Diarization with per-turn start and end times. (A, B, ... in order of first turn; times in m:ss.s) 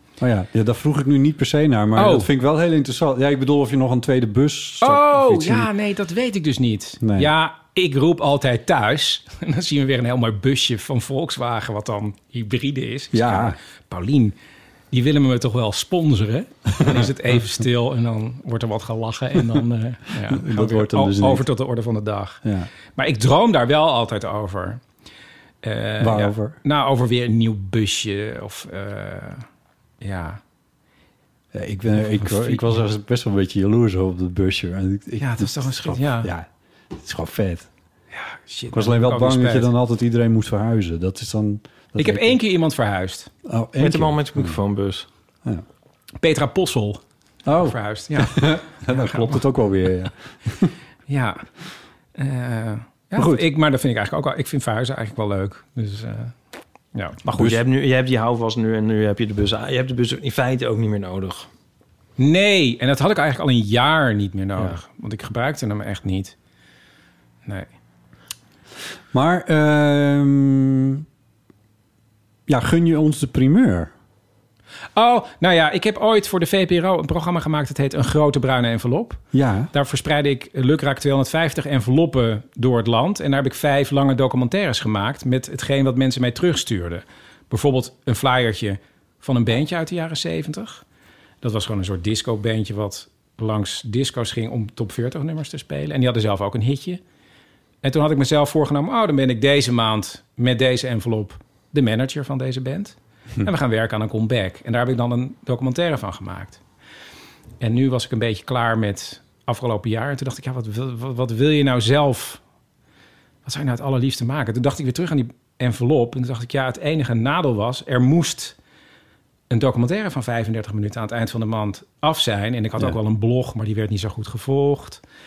0:00.2-0:05.7 A
0:02.0-0:02.3 B
0:04.8-0:14.3 B
0:07.0-0:07.3 A
0:13.1-0:13.6 A
0:14.9-0:22.4 B
0:16.7-0:17.1 A
0:20.2-0:21.5 A
0:22.4-0:22.7 A
0:22.9-0:24.8 B
0:25.6-0:29.4 B
0:26.0-0:26.6 A
0:30.0-0:30.4 B
0:31.5-0:37.7 A
0:32.0-0:32.7 B
0:35.2-0:36.3 B
0:38.1-0:39.7 B
0:38.7-0:42.4 A
0:42.0-0:43.3 B
0:43.4-0:44.6 A
0:43.8-0:45.0 C
0:46.2-0:47.0 B
0:47.4-0:50.7 A
0:47.6-0:49.4 B
0:51.1-0:51.4 B
0:52.1-0:56.3 B
0:53.2-0:53.4 A
0:56.9-0:57.2 B
0:57.2-1:01.5 C
0:57.3-0:57.6 A
1:02.2-1:06.3 B
1:09.1-1:11.0 A
1:12.5-1:13.9 A
1:15.0-1:30.8 B
1:19.3-1:19.7 A
1:31.4-1:37.0 B
1:37.8-1:46.6 B
1:47.6-1:52.4 B
1:53.4-1:58.6 B
1:59.5-2:05.0 B